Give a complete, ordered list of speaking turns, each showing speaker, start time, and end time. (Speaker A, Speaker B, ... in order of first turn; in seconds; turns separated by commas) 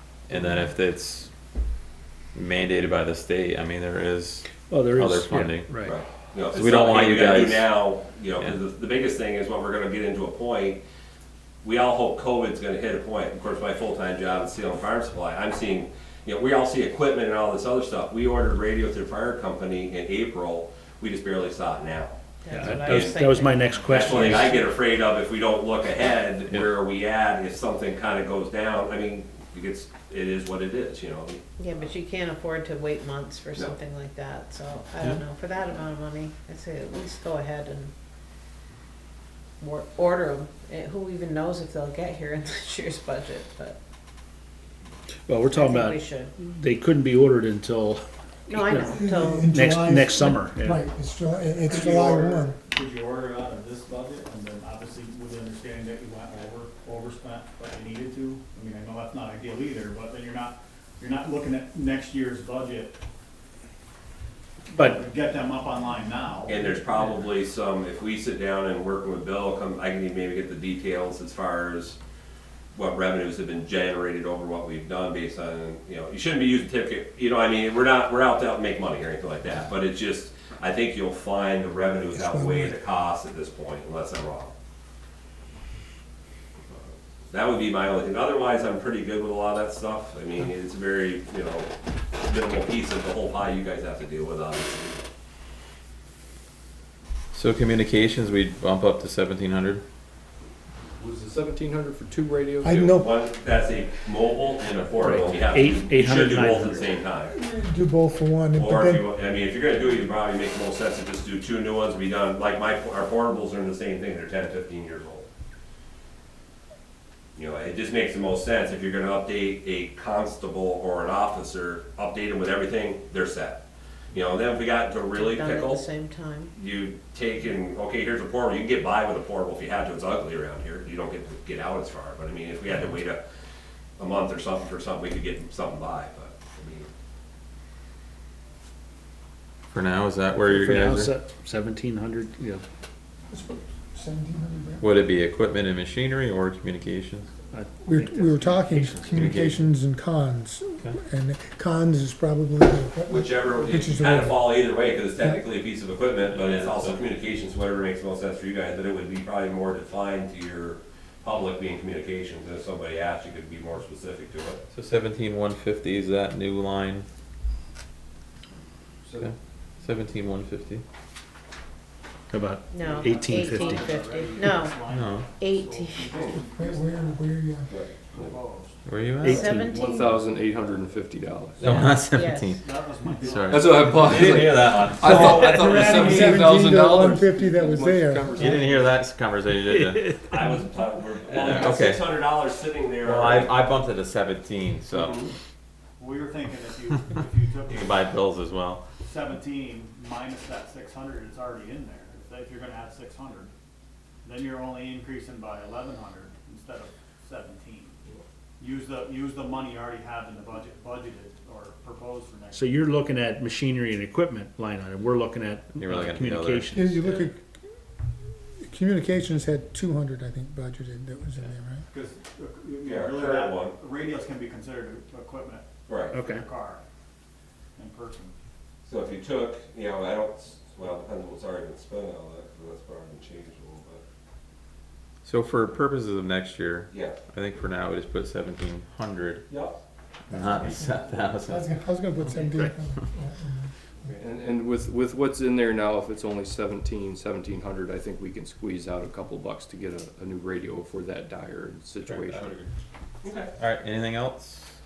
Speaker A: 0.3-1.3, Speaker B: 0.3-0.7, Speaker A: 2.4-5.7, Speaker C: 4.7-6.0, Speaker D: 5.8-10.8, Speaker A: 6.5-7.8, Speaker D: 11.6-22.2, Speaker E: 22.4-24.4, Speaker C: 22.5-24.6, Speaker D: 22.8-23.2, Speaker D: 23.9-31.4, Speaker E: 31.6-37.9, Speaker E: 39.6-43.8, Speaker C: 45.3-48.0, Speaker E: 45.5-46.3, Speaker E: 48.5-49.5, Speaker C: 48.5-50.8, Speaker B: 48.9-52.6, Speaker F: 51.6-63.0, Speaker F: 64.7-67.2, Speaker D: 66.5-72.0, Speaker D: 72.8-84.5, Speaker B: 82.1-82.8, Speaker D: 86.7-91.7, Speaker D: 92.2-95.0, Speaker A: 97.3-99.8, Speaker G: 101.0-102.9, Speaker B: 102.6-103.1, Speaker D: 102.7-107.4, Speaker C: 105.0-107.0, Speaker B: 107.3-109.1, Speaker D: 108.6-115.3, Speaker D: 117.3-123.6, Speaker D: 124.1-125.8, Speaker E: 125.1-126.5, Speaker D: 126.5-133.2, Speaker D: 134.0-136.9, Speaker A: 139.7-141.1, Speaker C: 140.4-142.6, Speaker B: 143.3-145.0, Speaker A: 144.8-147.3, Speaker C: 147.5-149.4, Speaker B: 147.8-154.7, Speaker A: 149.1-149.6, Speaker D: 153.1-164.6, Speaker A: 156.3-157.0, Speaker A: 164.7-167.1, Speaker A: 169.2-170.8, Speaker C: 172.3-173.9, Speaker E: 172.7-174.8, Speaker F: 172.7-177.2, Speaker A: 174.9-175.2, Speaker E: 175.4-176.1, Speaker B: 176.3-177.8, Speaker F: 177.9-178.8, Speaker A: 178.9-179.5, Speaker C: 179.2-179.9, Speaker E: 179.2-180.1, Speaker G: 179.5-181.6, Speaker F: 180.1-180.8, Speaker A: 181.6-182.6, Speaker F: 181.6-181.9, Speaker E: 182.1-182.6, Speaker F: 182.5-184.3, Speaker A: 183.2-186.4, Speaker G: 183.4-189.0, Speaker D: 183.9-185.5, Speaker B: 185.0-188.7, Speaker C: 185.4-185.7, Speaker A: 188.4-190.1, Speaker C: 189.7-190.2, Speaker D: 190.2-193.6, Speaker A: 191.3-192.2, Speaker A: 193.0-195.3, Speaker D: 194.9-195.3, Speaker F: 196.0-198.1, Speaker A: 197.7-198.8, Speaker F: 199.0-203.5, Speaker F: 204.2-208.0, Speaker F: 208.6-212.8, Speaker C: 212.5-217.1, Speaker A: 215.8-216.8, Speaker B: 216.7-217.4, Speaker B: 218.6-221.8, Speaker F: 221.9-225.7, Speaker D: 222.8-223.8, Speaker D: 225.9-226.2, Speaker C: 226.1-226.5, Speaker F: 226.2-226.8, Speaker F: 227.8-228.3, Speaker D: 228.8-234.0, Speaker A: 235.2-239.5, Speaker D: 236.9-237.2, Speaker D: 239.5-239.8, Speaker B: 240.3-243.7, Speaker A: 240.3-241.7, Speaker C: 242.3-242.7, Speaker G: 244.1-252.6, Speaker A: 252.0-252.7, Speaker D: 253.2-253.5, Speaker A: 253.6-254.7